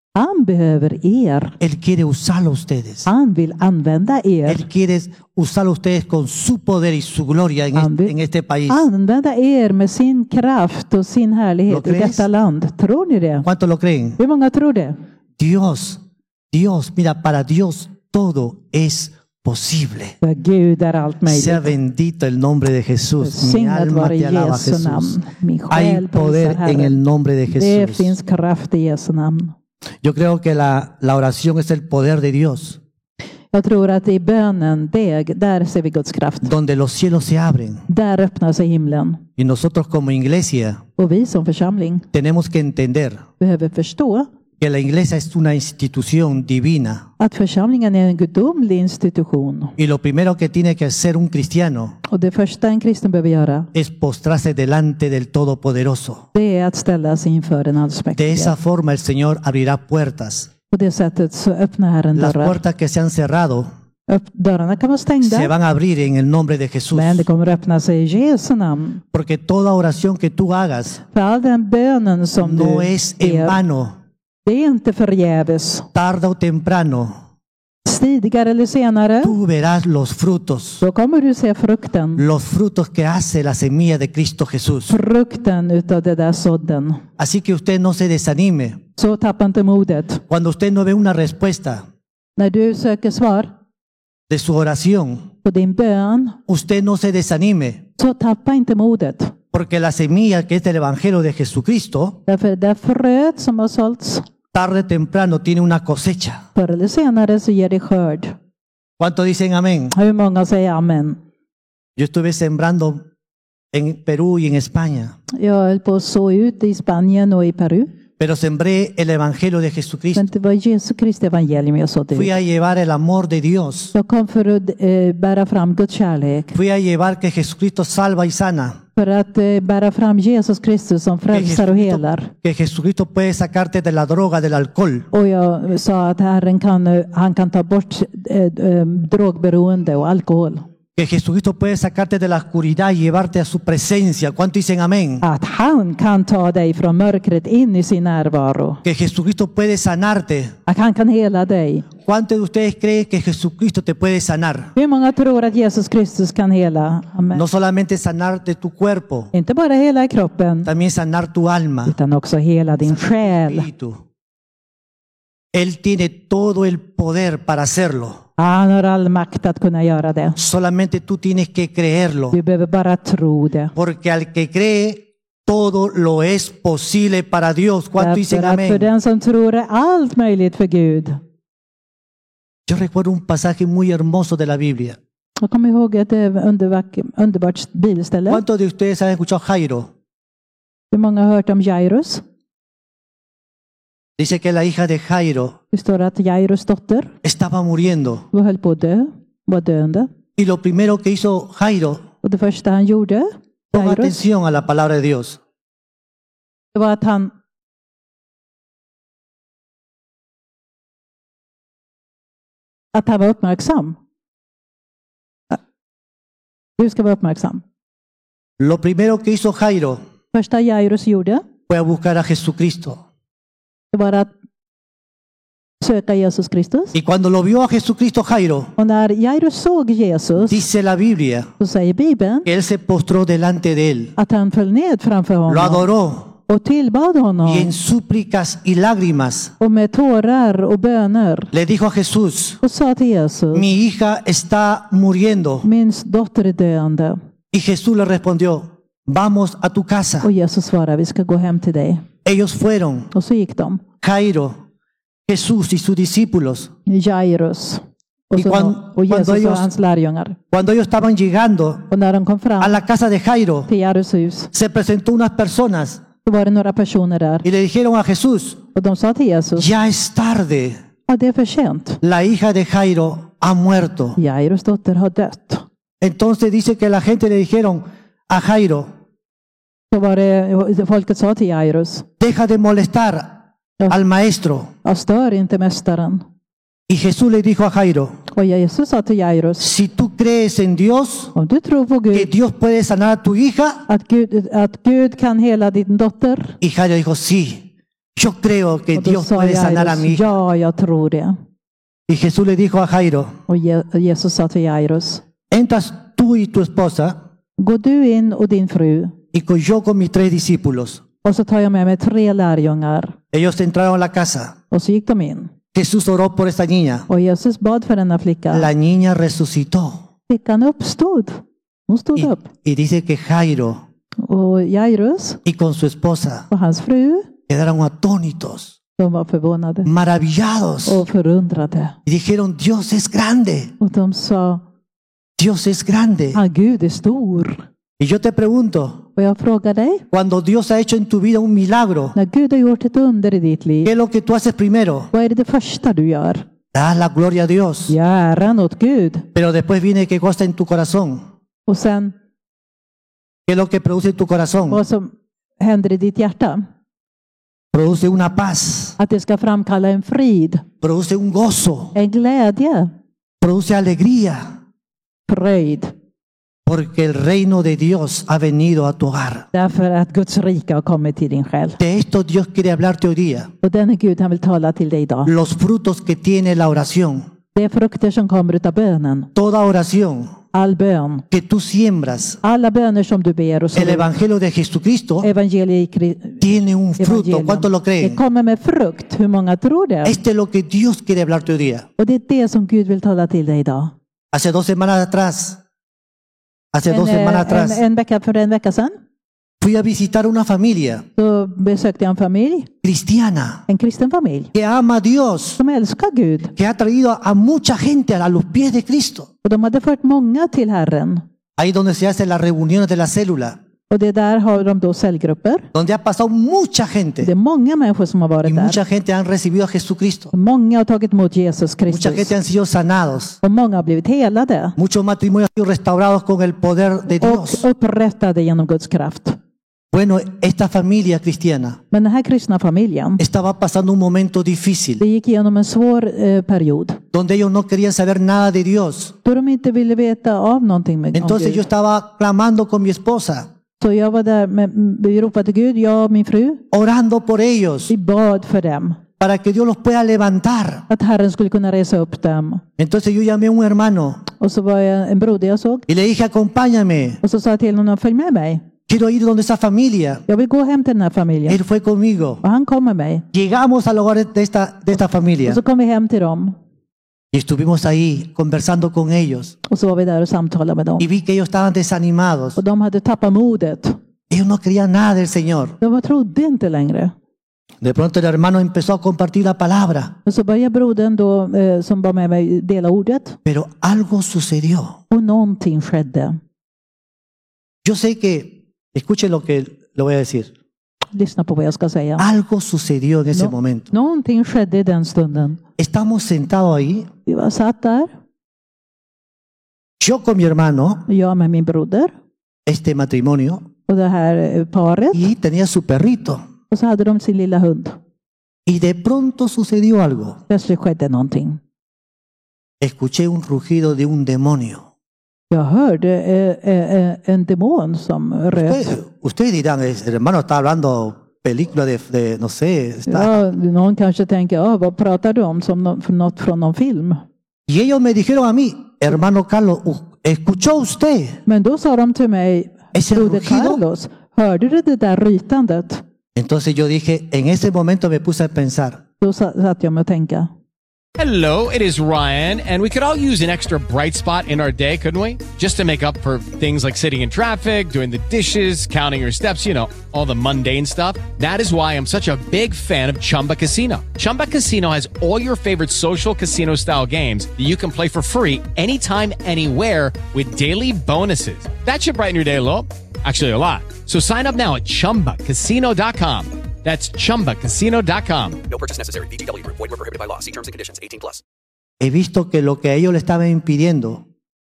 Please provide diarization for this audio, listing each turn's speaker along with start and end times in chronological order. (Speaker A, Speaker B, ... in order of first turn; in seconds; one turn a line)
Speaker A: 0.1-1.6
Speaker B: 1.6-3.1
Speaker A: 3.1-4.7
Speaker B: 4.5-8.8
Speaker A: 7.7-8.1
Speaker A: 8.7-13.5
Speaker B: 11.7-12.3
Speaker B: 13.4-14.2
Speaker A: 14.2-15.0
Speaker B: 15.4-16.0
Speaker B: 16.5-20.2
Speaker A: 20.2-21.8
Speaker B: 21.3-25.2
Speaker A: 23.2-27.0
Speaker B: 25.7-28.1
Speaker A: 27.5-29.5
Speaker B: 30.0-32.8
Speaker A: 33.5-36.5
Speaker B: 36.4-37.8
Speaker A: 37.9-39.2
Speaker B: 39.4-40.8
Speaker A: 41.0-42.1
Speaker B: 42.1-43.2
Speaker A: 43.4-44.3
Speaker B: 44.6-47.0
Speaker A: 47.2-49.7
Speaker B: 49.8-52.0
Speaker A: 52.1-53.7
Speaker B: 53.7-56.3
Speaker A: 56.3-58.5
Speaker B: 58.2-60.5
Speaker A: 60.7-62.6
Speaker B: 62.1-63.7
Speaker A: 64.1-65.5
Speaker B: 65.2-67.3
Speaker A: 66.9-69.0
Speaker B: 69.1-71.0
Speaker A: 71.1-73.6
Speaker B: 72.4-74.0
Speaker A: 74.5-75.9
Speaker B: 75.9-77.2
Speaker A: 77.8-79.4
Speaker B: 79.2-80.8
Speaker A: 80.8-82.2
Speaker B: 82.2-85.0
Speaker A: 84.9-87.0
Speaker B: 87.2-88.8
Speaker A: 89.0-90.2
Speaker B: 90.3-91.8
Speaker A: 92.4-93.5
Speaker B: 94.3-95.3
Speaker A: 95.4-96.4
Speaker B: 96.5-97.9
Speaker A: 98.0-99.3
Speaker B: 99.5-102.2
Speaker A: 102.3-104.3
Speaker B: 104.5-106.5
Speaker A: 106.6-108.3
Speaker B: 109.0-109.9
Speaker A: 109.9-111.2
Speaker B: 112.0-113.0
Speaker B: 113.7-115.2
Speaker A: 115.3-117.9
Speaker B: 118.2-120.3
Speaker A: 120.1-122.3
Speaker B: 122.1-123.9
Speaker A: 123.9-126.5
Speaker B: 126.5-128.8
Speaker A: 129.0-132.3
Speaker B: 131.3-135.1
Speaker A: 135.1-140.7
Speaker B: 141.0-145.2
Speaker A: 145.2-148.8
Speaker B: 148.8-150.6
Speaker A: 150.7-151.9
Speaker B: 152.0-154.7
Speaker A: 154.8-157.4
Speaker B: 157.3-159.3
Speaker A: 159.3-160.7
Speaker B: 160.6-161.9
Speaker A: 161.9-163.7
Speaker B: 162.8-164.0
Speaker B: 165.5-168.2
Speaker A: 168.4-170.4
Speaker B: 170.4-172.3
Speaker A: 172.3-173.7
Speaker B: 173.8-178.9
Speaker A: 178.0-181.2
Speaker B: 182.7-185.0
Speaker A: 185.4-188.4
Speaker B: 188.3-189.9
Speaker A: 190.9-192.2
Speaker B: 194.2-195.6
Speaker A: 195.7-197.1
Speaker B: 197.2-198.2
Speaker A: 198.3-200.1
Speaker B: 200.4-202.0
Speaker A: 202.2-204.2
Speaker B: 203.7-205.4
Speaker A: 206.7-207.3
Speaker A: 212.9-214.0
Speaker A: 216.8-217.6
Speaker B: 218.6-220.0
Speaker A: 220.3-221.4
Speaker B: 221.7-223.0
Speaker A: 223.9-224.3
Speaker A: 225.8-226.9
Speaker B: 226.9-228.7
Speaker A: 228.8-230.6
Speaker B: 230.4-231.5
Speaker A: 231.6-232.5
Speaker B: 232.5-234.1
Speaker A: 234.2-235.8
Speaker B: 235.5-236.3
Speaker A: 236.5-237.7
Speaker B: 237.4-239.5
Speaker A: 239.6-241.5
Speaker B: 241.5-242.6
Speaker A: 242.6-243.7
Speaker B: 243.5-245.7
Speaker A: 245.6-247.2
Speaker B: 247.5-250.3
Speaker A: 250.2-252.0
Speaker B: 252.2-253.1
Speaker A: 253.1-253.8
Speaker B: 254.0-254.6
Speaker B: 255.3-256.7
Speaker A: 256.9-260.4
Speaker B: 258.4-259.7
Speaker B: 260.5-261.9
Speaker A: 261.9-262.8
Speaker B: 262.6-263.7
Speaker A: 263.7-264.5
Speaker B: 264.5-266.0
Speaker A: 266.2-267.4
Speaker B: 267.4-268.6
Speaker A: 268.7-269.7
Speaker B: 269.6-270.8
Speaker A: 271.1-272.0
Speaker B: 272.0-274.2
Speaker A: 274.2-275.7
Speaker B: 276.0-278.9
Speaker A: 279.9-282.1
Speaker B: 282.2-283.4
Speaker B: 283.9-284.7
Speaker A: 284.8-286.2
Speaker B: 286.9-288.2
Speaker A: 288.3-289.7
Speaker B: 289.6-291.3
Speaker A: 291.4-292.3
Speaker B: 292.1-293.8
Speaker A: 293.9-296.6
Speaker B: 296.6-300.3
Speaker A: 298.9-301.4
Speaker B: 302.1-303.3
Speaker A: 303.5-305.2
Speaker B: 305.5-307.2
Speaker A: 307.6-309.1
Speaker B: 309.3-311.0
Speaker A: 311.2-313.1
Speaker B: 313.3-314.6
Speaker A: 314.7-315.5
Speaker B: 315.7-317.1
Speaker A: 317.1-318.7
Speaker B: 318.5-320.0
Speaker A: 320.3-322.5
Speaker B: 322.2-323.8
Speaker A: 324.2-325.4
Speaker B: 325.4-326.5
Speaker A: 326.5-327.3
Speaker B: 327.5-328.7
Speaker A: 329.0-329.9
Speaker B: 329.8-331.0
Speaker A: 330.9-332.0
Speaker B: 332.1-333.7
Speaker A: 333.8-334.6
Speaker B: 335.4-336.4
Speaker A: 336.3-337.6
Speaker B: 338.0-339.0
Speaker A: 339.2-340.0
Speaker B: 340.1-342.2
Speaker A: 342.1-343.9
Speaker B: 343.8-345.1
Speaker A: 345.1-346.4
Speaker B: 346.7-347.9
Speaker A: 347.9-349.3
Speaker B: 349.4-351.2
Speaker A: 351.7-352.1
Speaker B: 353.5-354.8
Speaker A: 354.7-356.6
Speaker B: 357.7-359.0
Speaker A: 359.0-360.6
Speaker B: 360.8-361.9
Speaker A: 361.9-362.9
Speaker B: 363.4-364.4
Speaker A: 365.3-365.9
Speaker B: 366.7-369.5
Speaker A: 369.5-371.8
Speaker B: 371.8-373.5
Speaker A: 373.6-375.3
Speaker B: 375.3-377.2
Speaker A: 377.6-379.3
Speaker B: 379.4-380.3
Speaker A: 380.5-381.3
Speaker B: 381.3-382.4
Speaker A: 382.4-384.1
Speaker B: 383.8-385.3
Speaker A: 385.2-390.2
Speaker B: 386.4-388.2
Speaker B: 390.0-391.9
Speaker A: 392.0-393.9
Speaker B: 394.3-395.6
Speaker B: 396.7-397.8
Speaker A: 396.9-398.9
Speaker B: 399.6-401.0
Speaker A: 401.2-402.7
Speaker B: 402.8-403.6
Speaker A: 403.7-404.5
Speaker B: 404.5-405.6
Speaker A: 405.6-406.5
Speaker B: 406.6-409.3
Speaker A: 409.4-411.2
Speaker B: 411.6-413.6
Speaker A: 413.9-415.7
Speaker B: 415.7-417.3
Speaker A: 417.2-418.8
Speaker B: 418.4-420.3
Speaker A: 420.3-422.3
Speaker B: 421.9-423.4
Speaker A: 423.4-424.8
Speaker B: 424.8-427.6
Speaker A: 427.2-429.4
Speaker B: 429.9-431.8
Speaker A: 431.9-433.2
Speaker B: 433.2-435.0
Speaker A: 435.0-437.0
Speaker B: 437.1-439.1
Speaker A: 439.2-441.6
Speaker B: 441.1-443.5
Speaker A: 443.8-446.6
Speaker B: 446.7-447.9
Speaker A: 447.9-449.0
Speaker B: 449.2-450.9
Speaker A: 450.9-452.6
Speaker B: 452.8-454.2
Speaker A: 454.4-455.9
Speaker B: 455.9-457.2
Speaker A: 457.2-458.6
Speaker B: 458.9-460.2
Speaker A: 460.3-461.6
Speaker B: 461.5-462.4
Speaker A: 462.4-463.2
Speaker B: 463.3-465.6
Speaker A: 465.4-466.5
Speaker B: 467.3-469.6
Speaker A: 469.7-471.1
Speaker B: 471.0-472.6
Speaker A: 472.6-474.0
Speaker B: 474.3-475.8
Speaker A: 475.8-477.1
Speaker B: 477.8-480.1
Speaker A: 480.2-483.4
Speaker B: 483.4-485.0
Speaker A: 485.1-486.4
Speaker B: 487.8-490.5
Speaker A: 491.1-492.3
Speaker B: 492.2-493.9
Speaker A: 493.3-495.6
Speaker B: 495.8-497.1
Speaker A: 497.3-498.1
Speaker B: 500.0-501.1
Speaker A: 501.1-502.1
Speaker B: 502.7-503.7
Speaker A: 503.9-505.3
Speaker B: 505.1-506.4
Speaker A: 506.7-508.0
Speaker B: 508.7-510.4
Speaker A: 510.5-511.6
Speaker B: 512.8-514.9
Speaker A: 515.5-518.9
Speaker B: 518.5-523.4
Speaker A: 523.1-527.2
Speaker B: 527.7-531.4
Speaker A: 531.5-536.0
Speaker B: 532.9-533.8
Speaker B: 536.4-539.0
Speaker A: 539.2-540.5
Speaker C: 541.2-568.6
Speaker D: 568.7-571.4
Speaker B: 572.0-574.2